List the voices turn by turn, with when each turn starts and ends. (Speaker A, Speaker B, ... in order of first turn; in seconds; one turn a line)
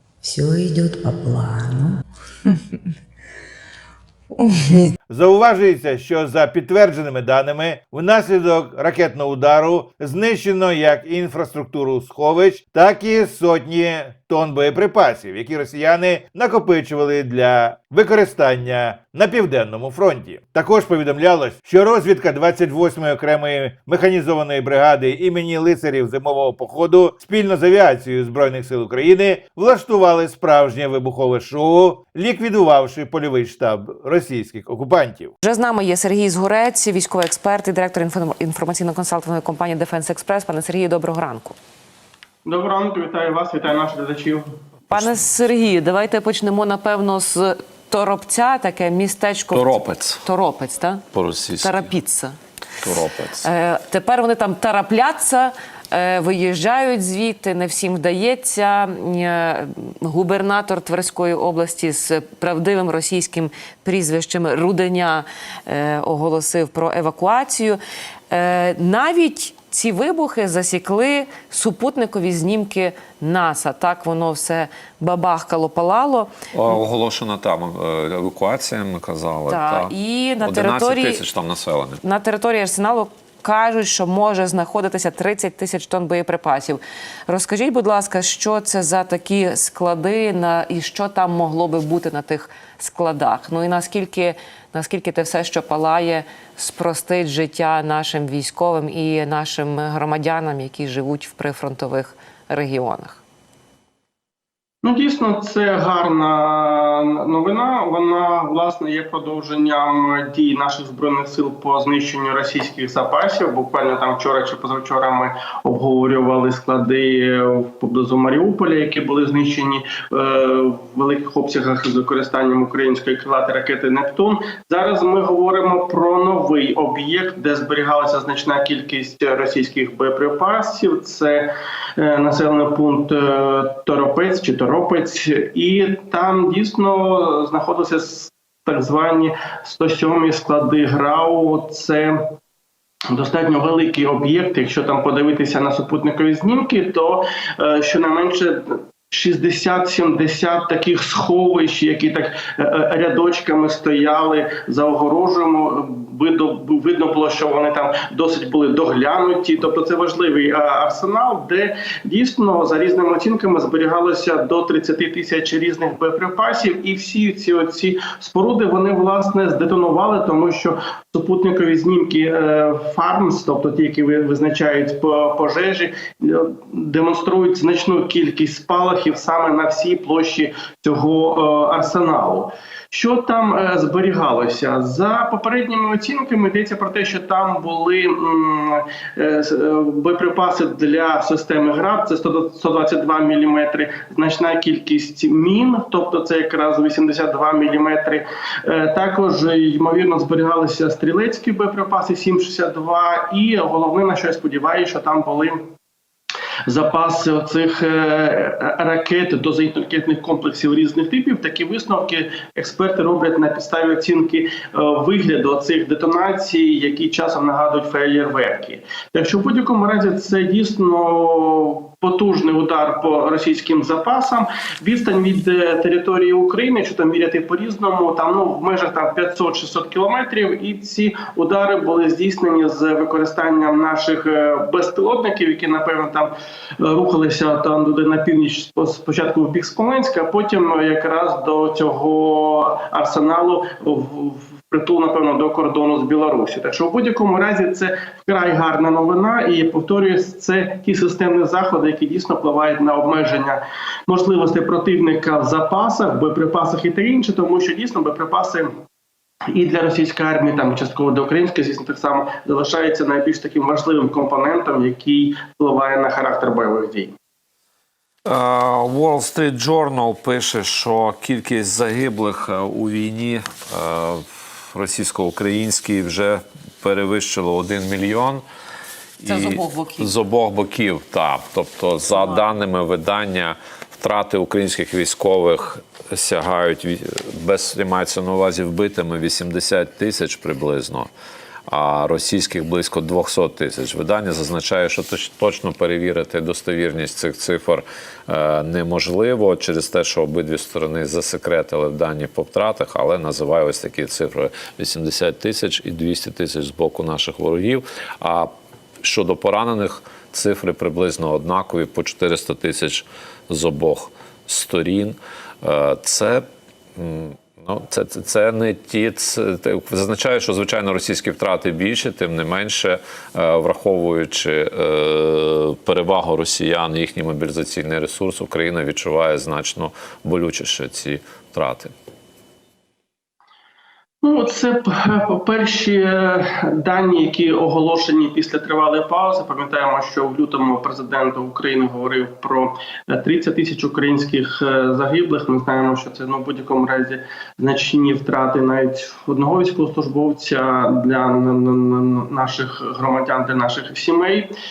Speaker A: 0.2-2.6
Speaker A: 4.3-4.9
Speaker B: 5.1-35.3
Speaker C: 35.4-41.5
Speaker D: 42.4-44.5
Speaker C: 44.9-51.0
Speaker E: 49.5-50.2
Speaker E: 51.1-51.9
Speaker C: 51.6-52.4
Speaker E: 52.8-53.5
Speaker C: 53.4-76.3
Speaker E: 76.5-82.0
Speaker C: 79.5-81.2
Speaker C: 82.0-103.2
Speaker D: 104.8-142.2
Speaker D: 143.1-205.7
Speaker D: 206.7-258.7
Speaker D: 259.5-267.1
Speaker E: 268.2-278.4
Speaker E: 279.2-291.1
Speaker C: 279.2-280.1
Speaker E: 291.7-308.5
Speaker E: 309.0-331.9
Speaker D: 334.2-354.5